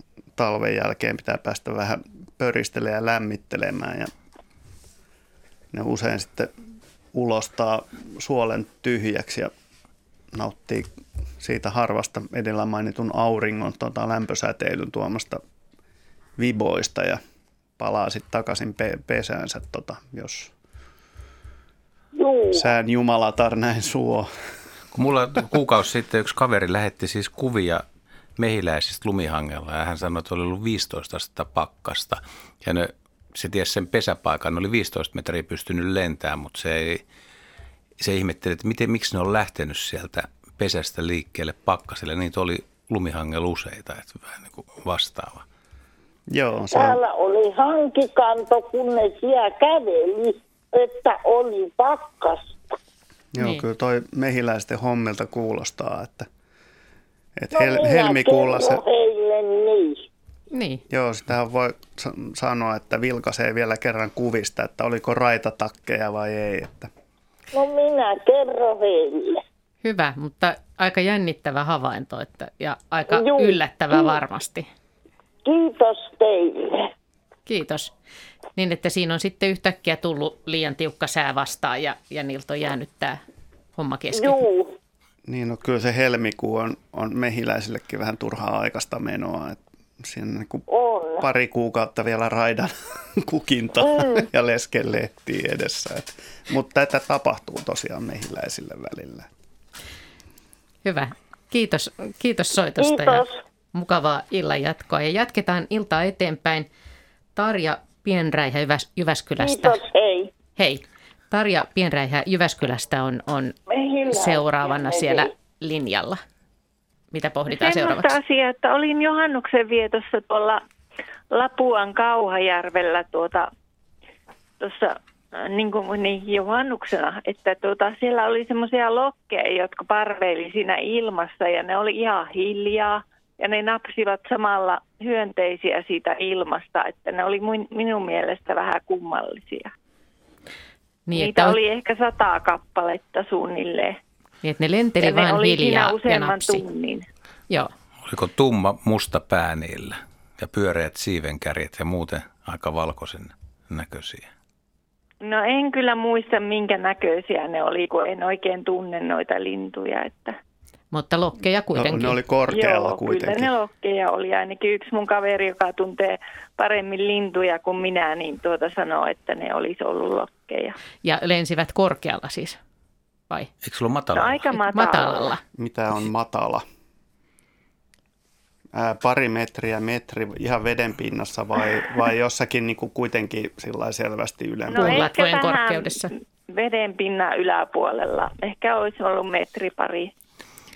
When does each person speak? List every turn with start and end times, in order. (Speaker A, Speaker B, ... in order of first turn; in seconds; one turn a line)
Speaker A: 0.3-4.1
Speaker A: 5.7-6.5
Speaker A: 7.1-9.5
Speaker A: 10.3-15.4
Speaker A: 16.4-17.2
Speaker A: 17.8-20.5
Speaker B: 22.1-22.7
Speaker A: 22.5-24.3
Speaker C: 24.9-27.8
Speaker C: 28.4-37.0
Speaker C: 38.0-45.4
Speaker A: 46.3-47.0
Speaker B: 46.7-52.5
Speaker A: 53.3-56.3
Speaker A: 57.4-58.8
Speaker B: 57.5-60.0
Speaker D: 60.5-60.8
Speaker A: 60.9-66.9
Speaker B: 67.5-69.4
Speaker D: 69.8-74.7
Speaker B: 73.1-74.2
Speaker B: 75.4-76.9
Speaker D: 77.5-77.9
Speaker D: 78.5-83.2
Speaker D: 83.8-84.4
Speaker B: 84.1-84.7
Speaker A: 85.2-90.7
Speaker B: 90.7-91.3
Speaker A: 91.2-99.3
Speaker B: 93.8-94.2
Speaker D: 100.8-106.7
Speaker B: 102.8-103.4
Speaker D: 107.3-109.8
Speaker B: 109.4-110.3
Speaker D: 110.5-113.5
Speaker B: 113.7-115.3
Speaker D: 114.1-116.2
Speaker D: 117.1-118.1
Speaker E: 117.5-120.6
Speaker E: 121.3-123.5
Speaker E: 124.6-139.7
Speaker D: 141.1-141.6
Speaker E: 141.1-144.0
Speaker D: 144.4-146.6
Speaker E: 145.0-147.1
Speaker C: 148.1-154.3
Speaker E: 155.2-160.3
Speaker D: 160.9-162.2
Speaker A: 161.7-163.5
Speaker E: 162.5-170.8
Speaker D: 171.0-172.6
Speaker C: 173.6-174.4
Speaker E: 174.1-175.3
Speaker D: 174.7-175.4
Speaker A: 175.6-176.6
Speaker A: 178.7-185.1
Speaker E: 184.7-190.1
Speaker D: 184.7-186.1